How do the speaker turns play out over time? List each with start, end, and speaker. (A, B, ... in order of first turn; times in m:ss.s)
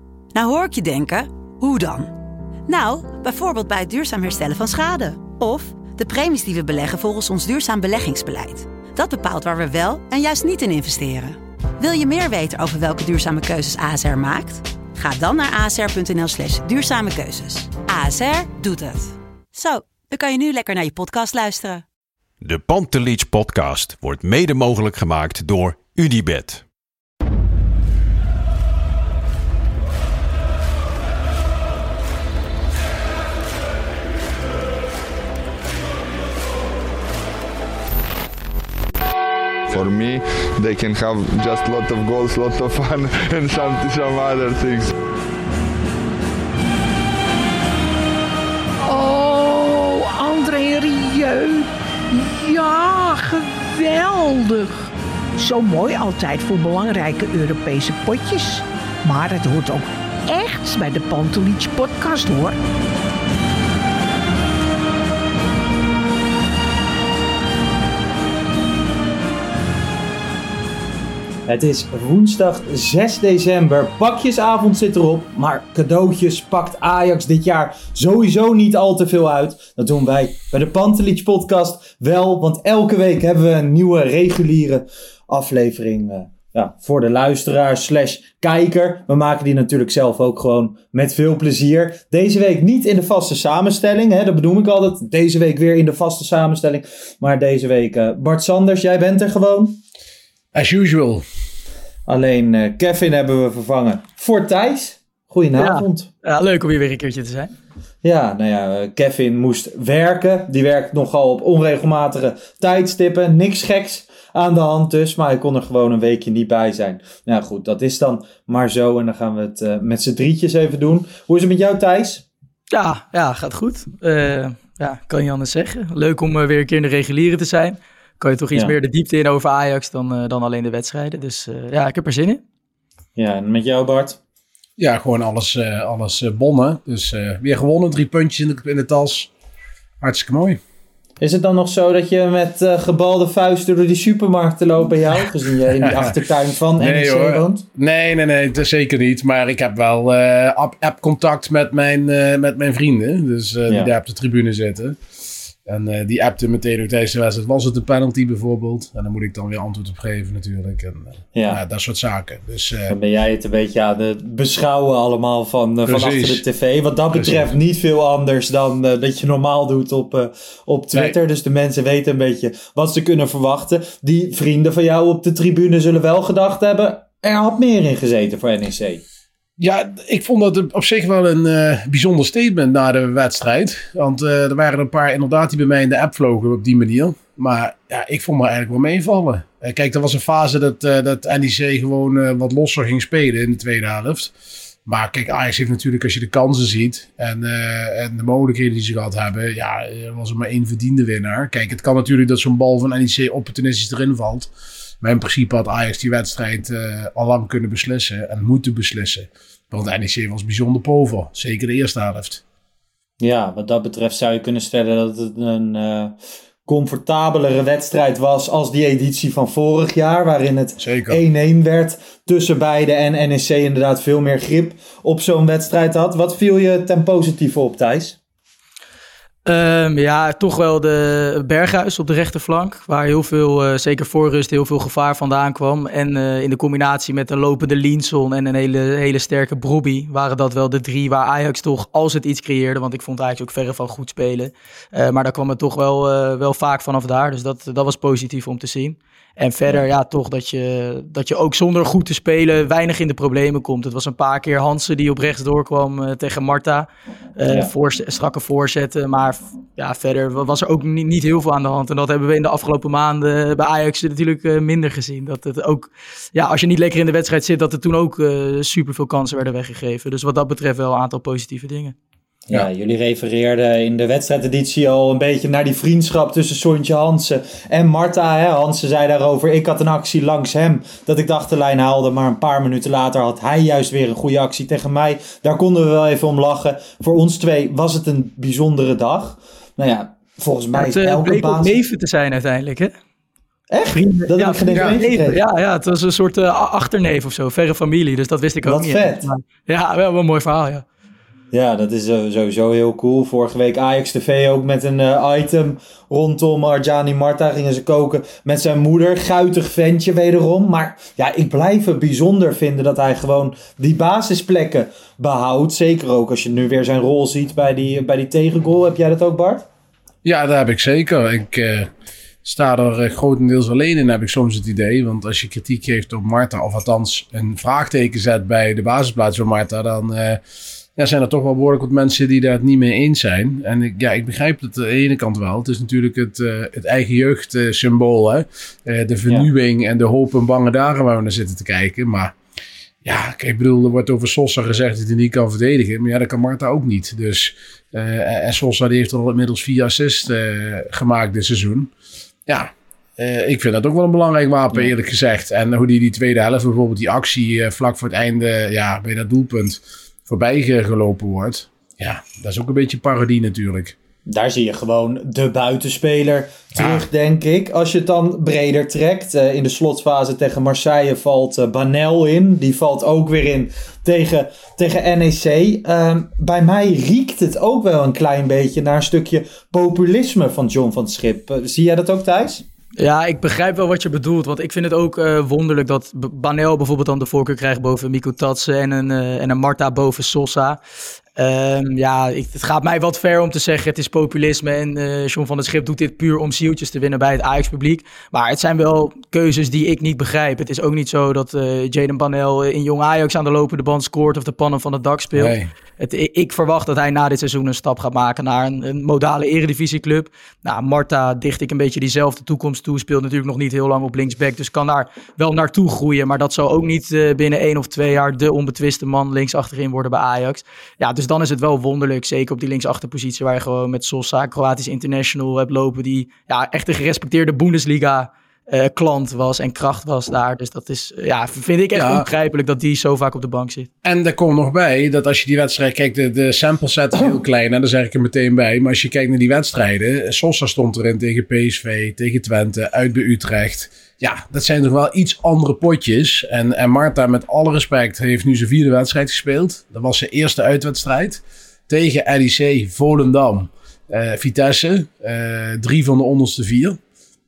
0:00.3-0:02.1 A
0:02.7-0:21.8 A
0:22.4-0:26.6 B
0:39.7-0:44.9 C
0:48.8-1:02.6 D
1:11.5-1:39.8 E
1:40.5-1:41.2 F
1:42.1-1:46.1 E
1:45.6-1:47.5 G
1:48.0-2:02.2 E
2:02.7-2:12.4 G
2:13.2-2:14.2 E
2:14.8-2:19.3 F
2:20.0-2:20.6 F
2:21.2-2:27.6 E
2:25.8-2:26.2 F
2:26.8-2:35.0 F
2:35.6-2:43.0 F
2:41.3-2:41.6 E
2:42.9-2:59.0 E
2:45.8-2:46.4 F
2:47.1-2:47.4 F
2:59.6-3:14.3 F
3:14.8-3:32.4 F
3:33.2-3:36.1 E
3:36.7-3:48.2 E
3:40.8-3:41.2 F
3:49.4-4:31.9 G
4:17.5-4:17.7 E
4:32.5-4:51.8 E
4:50.7-4:52.9 G
4:53.7-4:55.4 E
4:53.9-5:00.8 G
4:54.7-4:55.0 F
4:58.6-4:59.3 E
5:01.5-5:19.6 E
5:20.2-5:21.9 F
5:22.4-5:30.4 F
5:31.0-5:42.4 F
5:43.0-5:51.9 F
5:52.5-6:04.0 F
6:04.3-6:22.6 E
6:06.7-6:07.0 F
6:23.0-6:30.8 G
6:31.4-7:13.9 G
6:45.3-6:45.7 F
7:11.9-7:12.2 F
7:14.0-7:37.0 F